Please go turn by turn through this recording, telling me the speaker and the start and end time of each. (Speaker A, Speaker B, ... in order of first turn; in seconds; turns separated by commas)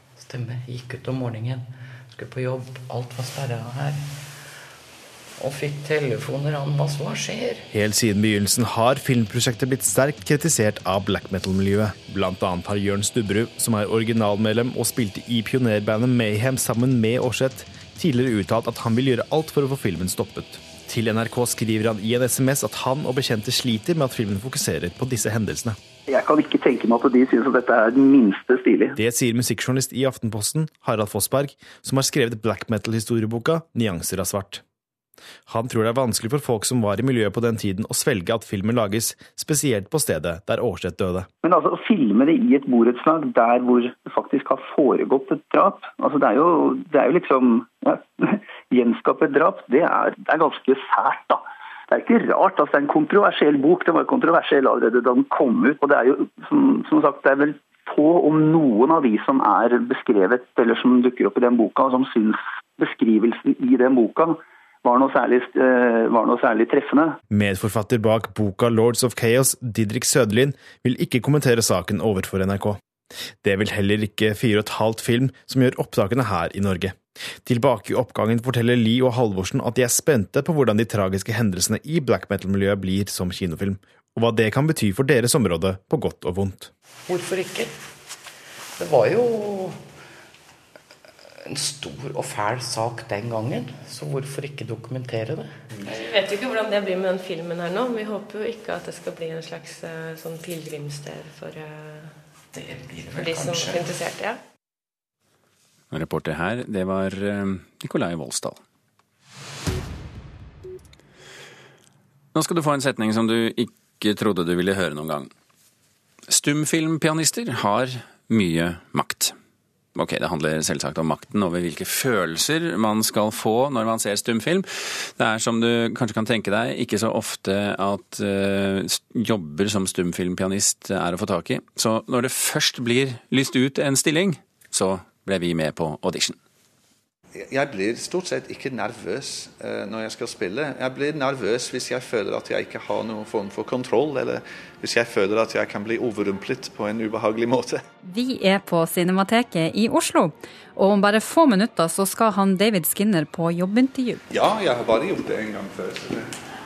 Speaker A: 0.2-4.1, Speaker A: 5.4-7.7, Speaker B: 7.7-25.8, Speaker C: 26.1-28.9, Speaker B: 28.9-34.6, Speaker B: 35.5-41.3, Speaker C: 41.4-67.2, Speaker B: 67.3-72.8, Speaker B: 73.4-86.7, Speaker A: 87.1-87.7, Speaker A: 88.8-89.8, Speaker A: 91.4-95.6, Speaker D: 95.8-102.2, Speaker A: 102.5-103.9, Speaker D: 103.1-104.4, Speaker E: 105.9-108.6, Speaker E: 112.3-115.3, Speaker E: 116.3-119.3, Speaker E: 119.9-136.3, Speaker F: 137.3-147.8, Speaker G: 148.0-154.2, Speaker F: 154.3-156.3